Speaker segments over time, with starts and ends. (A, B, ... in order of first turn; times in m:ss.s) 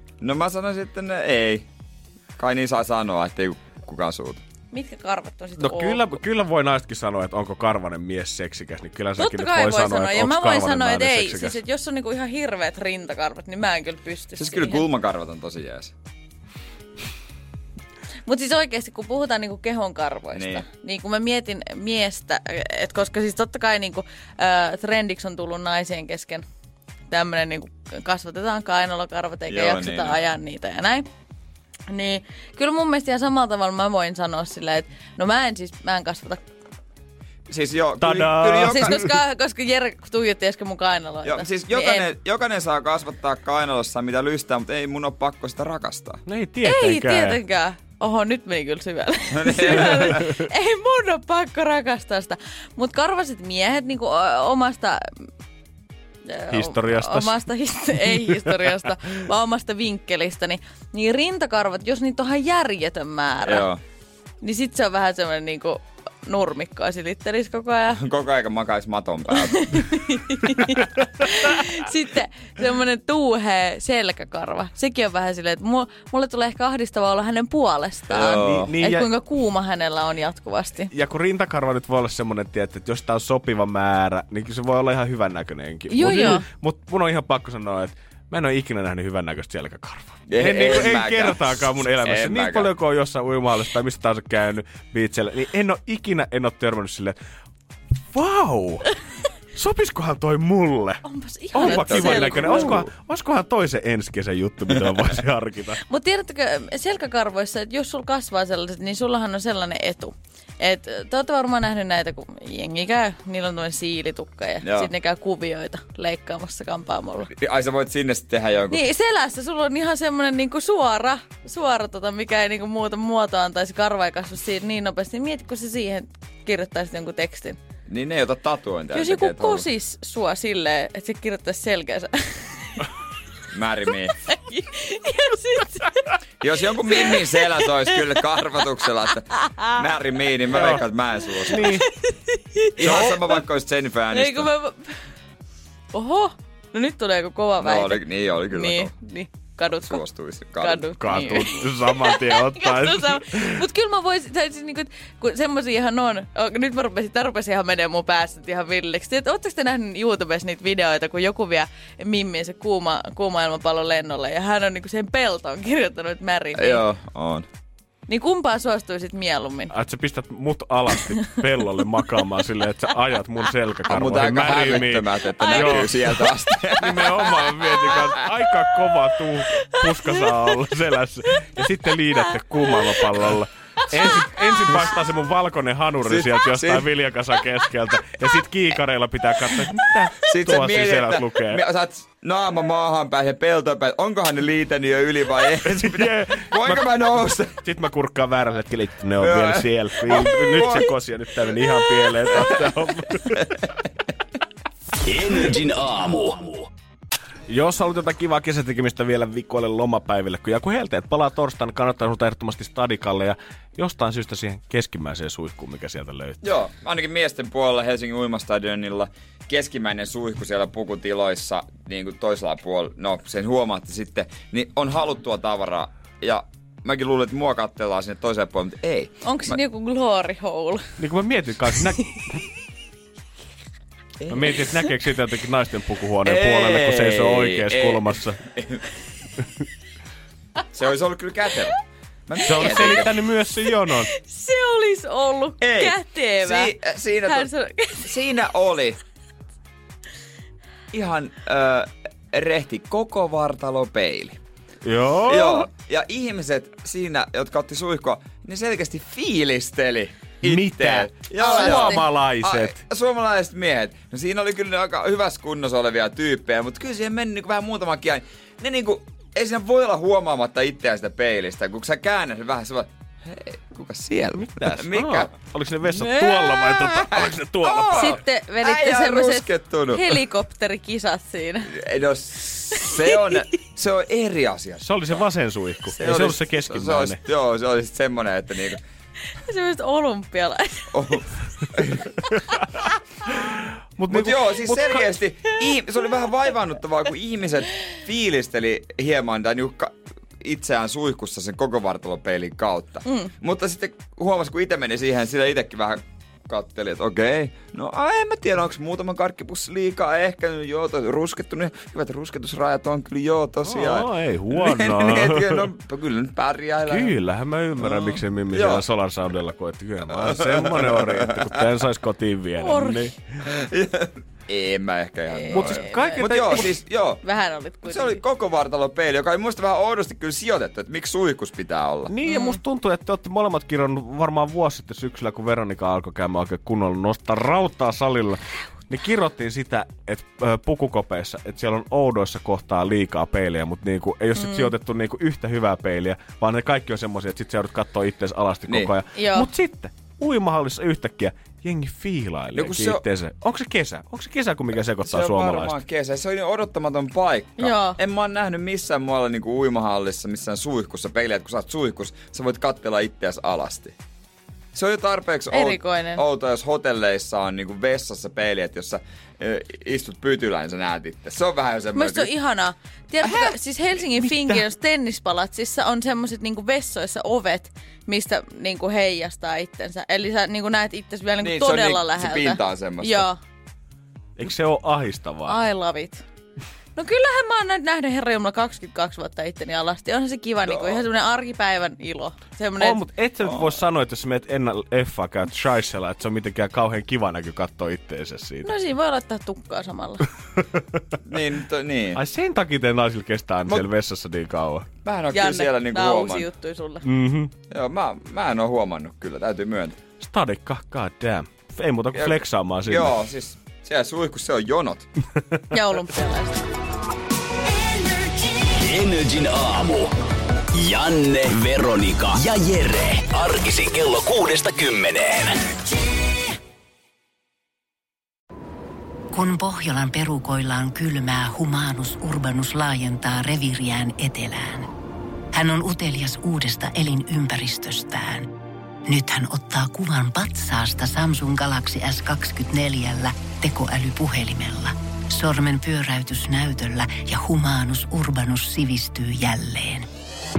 0:00.2-0:01.6 A
0:02.4-0:04.4 A
0:04.7-0:06.1 B
0:05.6-0:11.6 C
0:09.2-0:14.8 B
0:14.4-0:15.9 A
0:18.2-0:26.4 B
0:20.3-0:20.6 A
0:27.1-0:31.1 B
0:29.5-0:30.2 A
0:31.9-0:36.4 B
0:37.5-0:39.0 A
0:38.0-0:39.1 C
0:38.6-0:42.1 B
0:41.2-0:46.2 A
0:46.2-0:47.4 C
0:46.6-0:55.0 B
0:49.4-0:50.3 A
0:56.2-1:03.7 B
0:56.5-0:57.5 C
0:58.2-0:58.6 C
1:03.4-1:03.8 A
1:04.4-1:08.0 B
1:08.0-1:09.8 A
1:09.3-1:20.9 B
1:18.1-1:18.8 A
1:18.3-1:19.1 C
1:20.9-1:37.2 C
1:25.9-1:26.5 B
1:30.3-1:32.7 A
1:38.1-1:38.9 C
1:39.5-1:45.8 C
1:41.0-1:42.8 B
1:41.6-1:42.9 A
1:45.9-1:57.3 B
1:54.6-1:54.9 A
1:57.4-1:58.8 A
1:58.7-2:07.6 B
2:07.9-2:09.6 A
2:08.9-2:12.9 B
2:13.5-2:14.2 A
2:14.2-2:16.1 B
2:16.4-2:21.7 A
2:16.9-2:17.7 B
2:19.3-2:19.7 B
2:20.5-2:20.8 C
2:21.4-2:21.9 C
2:21.5-2:23.1 B
2:22.8-2:24.5 A
2:22.8-2:23.2 C
2:24.1-2:25.0 B
2:25.9-2:30.0 B
2:27.6-2:28.9 A
2:29.8-2:31.4 A
2:30.6-2:46.8 B
2:31.0-2:33.6 C
2:46.6-2:47.4 A
2:48.1-2:49.7 B
2:49.7-2:56.3 C
2:53.9-2:57.8 A
2:55.4-2:56.2 B
2:56.8-3:11.6 C
2:57.1-2:57.6 B
2:59.7-3:00.5 B
3:02.6-3:03.1 B
3:04.2-3:04.4 B
3:06.0-3:06.9 A
3:10.3-3:17.5 A
3:15.6-3:17.0 C
3:17.6-3:23.4 C
3:19.2-3:20.9 A
3:21.7-3:22.5 A
3:25.0-3:26.7 D
3:27.5-3:36.4 C
3:36.4-3:49.6 A
3:49.2-3:50.8 B
3:51.0-3:52.4 C
3:54.2-3:54.5 A
3:54.3-3:58.4 C
3:56.2-3:58.8 A
4:00.7-4:03.2 A
4:02.4-4:04.1 C
4:04.1-4:06.7 B
4:05.6-4:07.5 A
4:07.2-4:08.1 B
4:08.0-4:09.0 A
4:10.9-4:14.4 A
4:14.8-4:15.7 C
4:15.3-4:35.3 A
4:20.4-4:22.8 C
4:21.4-4:22.0 B
4:34.3-4:38.2 C
4:35.9-4:40.2 A
4:37.9-4:41.7 B
4:41.7-4:45.2 A
4:42.7-4:43.1 B
4:44.8-4:47.2 C
4:45.9-4:48.8 A
4:49.4-4:51.2 B
4:50.9-4:52.1 A
4:52.3-4:52.6 C
4:54.0-4:55.2 C
4:54.1-5:17.1 A
5:03.0-5:03.3 B
5:13.6-5:15.7 C
5:16.9-5:23.1 C
5:17.8-5:18.8 A
5:20.1-5:21.4 A
5:22.6-5:23.1 B
5:23.4-5:27.2 A
5:25.3-5:26.7 B
5:25.5-5:26.7 C
5:27.2-5:28.2 B
5:27.8-5:32.1 A
5:32.1-5:55.8 C
5:32.2-5:32.6 B
5:44.4-5:44.7 B
5:48.7-5:48.9 A
5:49.1-5:49.5 B
5:52.5-5:53.0 A
5:55.0-6:03.9 A
5:57.6-5:58.0 B
6:04.7-6:12.3 A
6:05.5-6:06.2 B
6:11.9-6:23.4 B
6:13.2-6:13.5 A
6:14.2-6:14.6 C
6:21.4-6:23.3 A
6:24.4-6:25.6 C
6:25.4-6:26.2 B
6:26.9-6:33.0 B
6:30.6-6:31.0 A
6:32.8-6:38.7 C
6:33.4-6:33.8 A
6:38.6-6:40.2 B
6:40.6-6:41.0 C
6:41.2-6:42.2 A
6:42.1-6:44.9 C
6:45.0-6:46.5 A
6:45.3-6:47.0 B
6:47.0-6:47.5 C
6:47.7-6:50.0 A
6:50.2-6:53.2 C
6:52.1-6:55.1 A
6:55.7-6:56.6 B
6:58.5-7:00.1 D
7:00.7-7:05.6 D
7:09.3-7:14.9 E
7:15.5-7:18.5 E
7:19.1-7:30.1 E